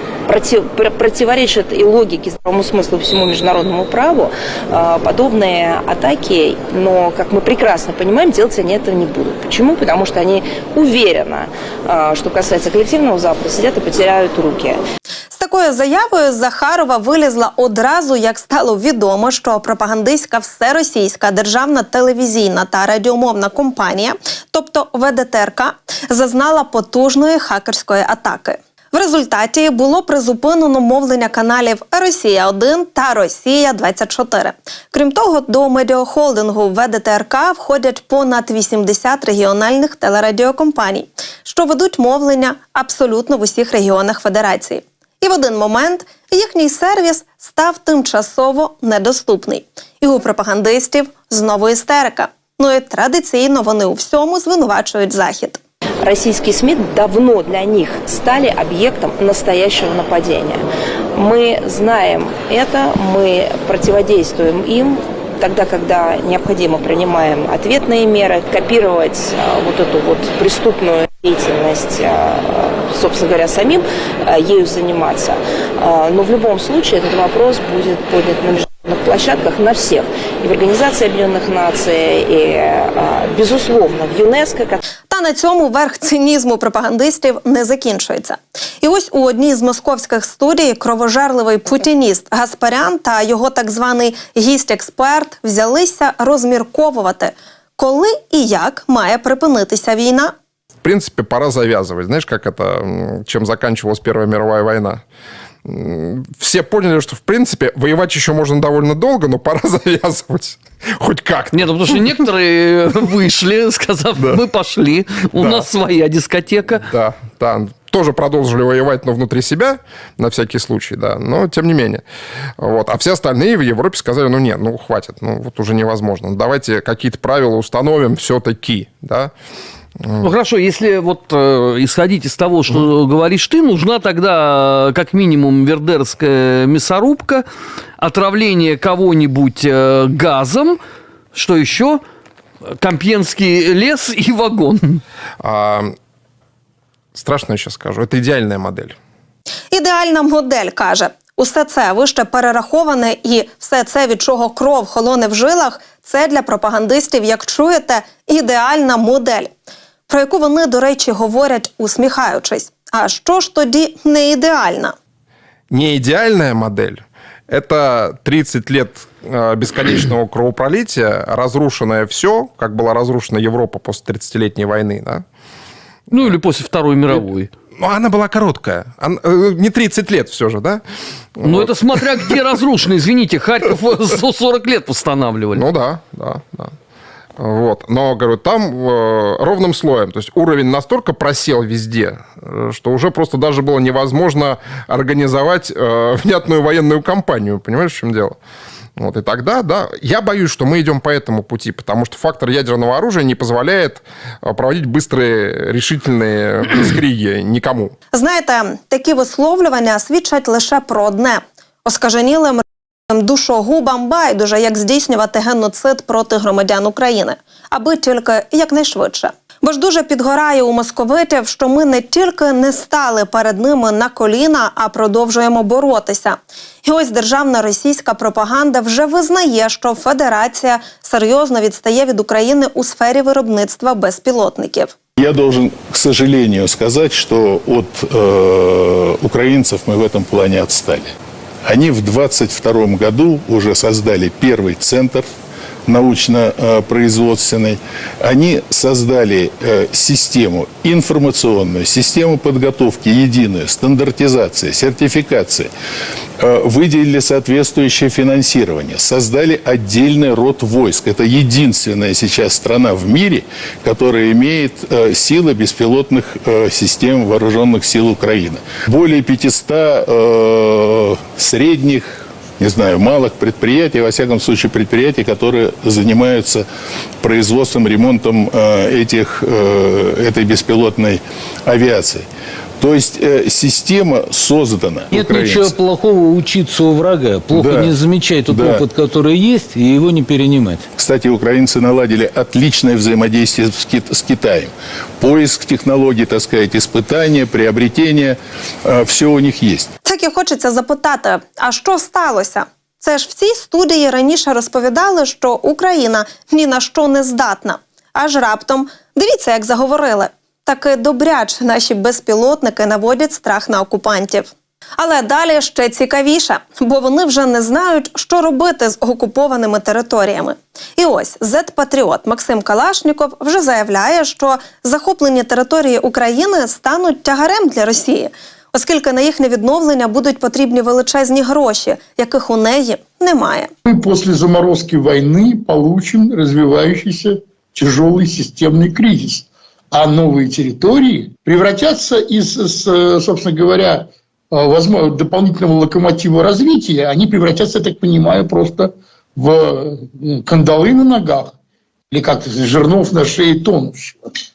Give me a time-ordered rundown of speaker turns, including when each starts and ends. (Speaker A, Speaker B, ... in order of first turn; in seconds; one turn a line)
Speaker A: 0.2-14.8
Speaker B: 15.3-55.6
Speaker A: 56.0-60.6
Speaker A: 61.1-84.8
Speaker B: 85.1-100.3
Speaker C: 100.8-105.0
Speaker C: 105.6-112.2
Speaker D: 111.6-116.8
Speaker C: 114.2-114.4
Speaker C: 115.3-115.7
Speaker C: 116.8-122.0
Speaker C: 122.6-129.3
Speaker C: 130.0-130.3
Speaker D: 130.3-137.4
Speaker D: 138.0-140.8
Speaker D: 141.3-142.0
Speaker D: 142.8-145.0
Speaker C: 145.4-145.9
Speaker C: 147.1-148.9
Speaker B: 149.7-159.5
Speaker B: 160.1-164.9
Speaker C: 165.7-175.2
Speaker D: 176.1-177.5
Speaker C: 177.8-180.8
Speaker C: 181.4-182.4
Speaker D: 181.5-185.6
Speaker C: 185.5-186.7
Speaker C: 187.4-198.4
Speaker C: 199.0-207.9
Speaker B: 208.1-234.9
Speaker E: 235.2-241.1
Speaker E: 241.7-245.2
Speaker E: 245.9-255.7
Speaker E: 256.4-276.6
Speaker E: 277.2-282.2
Speaker E: 282.8-285.8
Speaker F: 285.1-290.8
Speaker E: 287.5-287.9
Speaker E: 288.5-288.8
Speaker E: 290.9-299.9
Speaker B: 300.0-333.7
Speaker G: 333.9-351.5
Speaker G: 352.1-354.2